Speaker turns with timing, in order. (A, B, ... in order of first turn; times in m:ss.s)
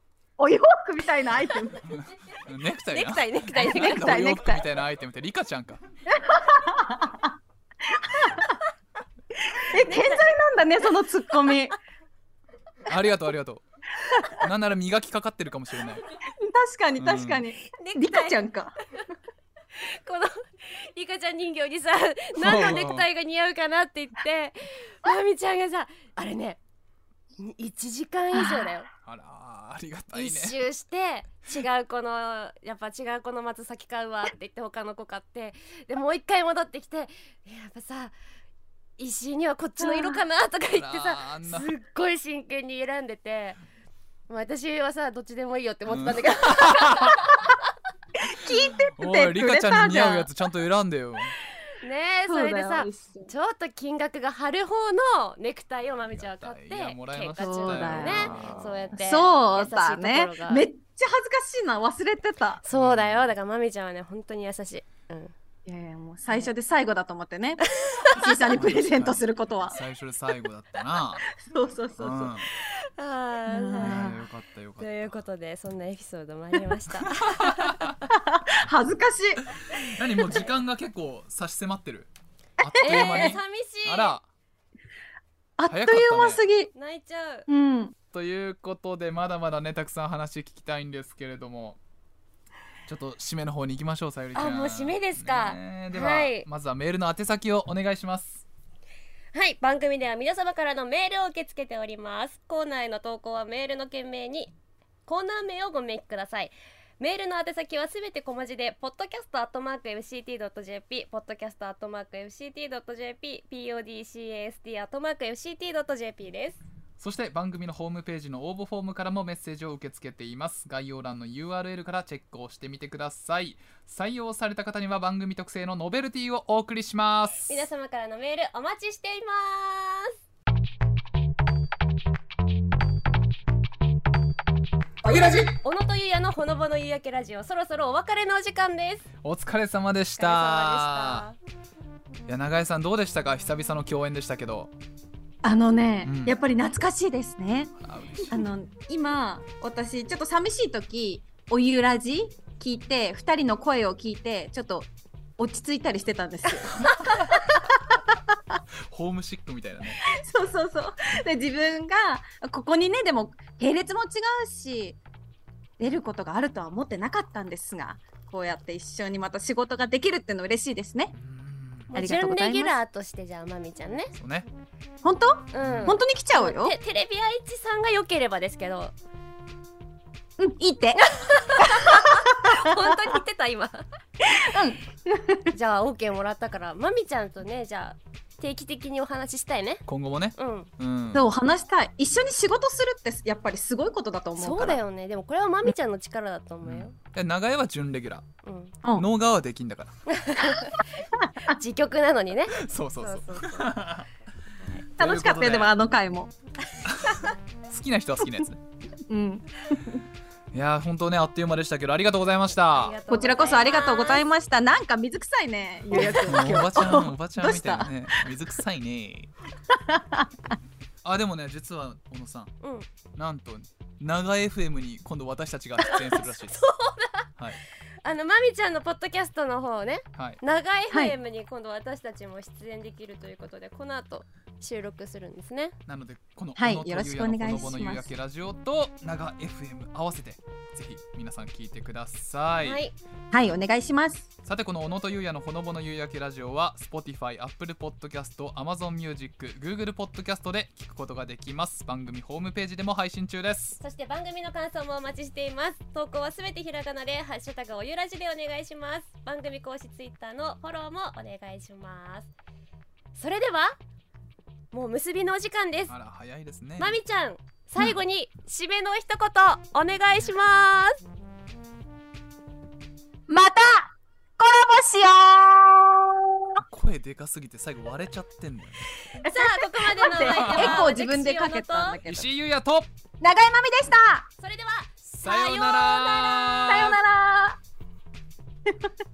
0:00.4-0:01.9 A
0:01.8-0:05.8 B
0:02.9-0:04.2 C
0:03.5-0:04.6 A
0:06.1-0:07.3 A
0:07.9-0:08.6 A
0:09.5-0:11.8 A
0:09.8-0:10.2 C
0:12.8-0:13.6 B
0:14.0-0:14.4 A
0:14.4-0:16.0 B
0:16.2-0:18.8 A
0:17.0-0:17.4 B
0:17.7-0:18.4 C
0:19.8-0:26.6 C
0:22.4-0:23.1 B
0:27.4-0:28.9 C
0:28.3-0:28.7 A
0:29.0-0:30.6 B
0:30.1-0:38.1 C
0:39.0-0:43.6 C
0:39.8-0:40.2 A
0:40.7-0:41.7 B
0:44.3-0:47.5 C
0:45.9-0:47.2 B
0:48.2-0:50.3 A
0:48.2-0:51.4 B
0:51.8-1:00.6 C
0:52.2-0:53.3 A
0:56.1-0:58.9 B
0:57.4-1:02.6 A
1:02.6-1:05.3 C
1:02.7-1:03.3 B
1:05.6-1:09.8 A
1:07.7-1:08.3 C
1:08.5-1:11.3 B
1:11.4-1:12.4 A
1:12.0-1:12.5 B
1:12.6-1:14.1 C
1:13.5-1:14.2 A
1:13.8-1:15.2 B
1:14.8-1:18.0 C
1:17.0-1:17.9 B
1:18.1-1:19.5 A
1:19.7-1:24.2 B
1:22.6-1:23.4 A
1:22.8-1:24.1 C
1:25.6-1:26.7 A
1:25.7-1:26.4 B
1:26.7-1:27.5 C
1:27.5-1:27.9 A
1:28.1-1:31.8 B
1:32.8-1:38.4 B
1:34.3-1:36.4 C
1:39.3-1:44.5 C
1:45.0-1:56.6 C
1:57.0-2:07.6 B
2:07.5-2:10.2 C
2:15.1-2:19.0 C
2:19.2-2:21.3 B
2:20.2-2:21.4 C
2:22.3-2:24.7 B
2:25.4-2:27.7 A
2:26.0-2:26.3 B
2:27.8-2:28.5 B
2:28.3-2:37.8 A
2:38.9-2:40.0 B
2:40.0-2:45.0 A
2:45.8-2:51.1 A
2:51.1-2:51.9 B
2:51.9-2:54.1 C
2:51.9-2:52.8 A
2:54.1-2:54.5 B
2:55.0-2:56.8 A
2:55.5-2:58.9 C
2:55.6-2:55.9 B
3:00.4-3:03.0 A
3:01.1-3:03.8 C
3:04.2-3:05.5 A
3:05.5-3:09.8 C
3:09.9-3:11.3 B
3:10.4-3:10.7 C
3:11.1-3:14.8 A
3:14.4-3:16.9 C
3:16.6-3:18.2 B
3:18.4-3:18.7 C
3:18.9-3:19.9 B
3:20.1-3:20.8 C
3:21.2-3:21.6 A
3:21.5-3:23.8 C
3:22.6-3:24.1 B
3:25.0-3:25.7 B
3:25.0-3:26.3 A
3:26.8-3:28.6 B
3:29.1-3:30.0 A
3:30.5-3:33.0 B
3:32.7-3:34.2 C
3:33.1-3:38.2 A
3:36.1-3:39.3 B
3:39.9-3:40.3 A
3:41.0-3:42.5 B
3:42.6-3:42.9 C
3:43.1-3:46.6 B
3:45.8-3:47.3 C
3:48.0-3:55.8 C
3:50.1-3:50.4 B
3:55.9-4:02.8 B
3:56.6-3:58.1 A
4:02.6-4:02.9 C
4:03.3-4:04.3 A
4:04.4-4:13.8 B
4:13.8-4:22.3 C
4:23.1-4:23.8 C
4:24.7-4:25.9 C
4:25.9-4:27.0 B
4:26.8-4:31.0 C
4:33.3-4:36.6 A
4:36.6-4:38.9 B
4:39.2-4:42.0 C
4:39.2-4:42.2 A
4:40.2-4:40.9 B
4:42.0-4:42.9 B
4:43.2-4:44.3 A
4:44.4-4:46.6 C
4:45.0-4:47.0 B
4:46.6-4:47.6 A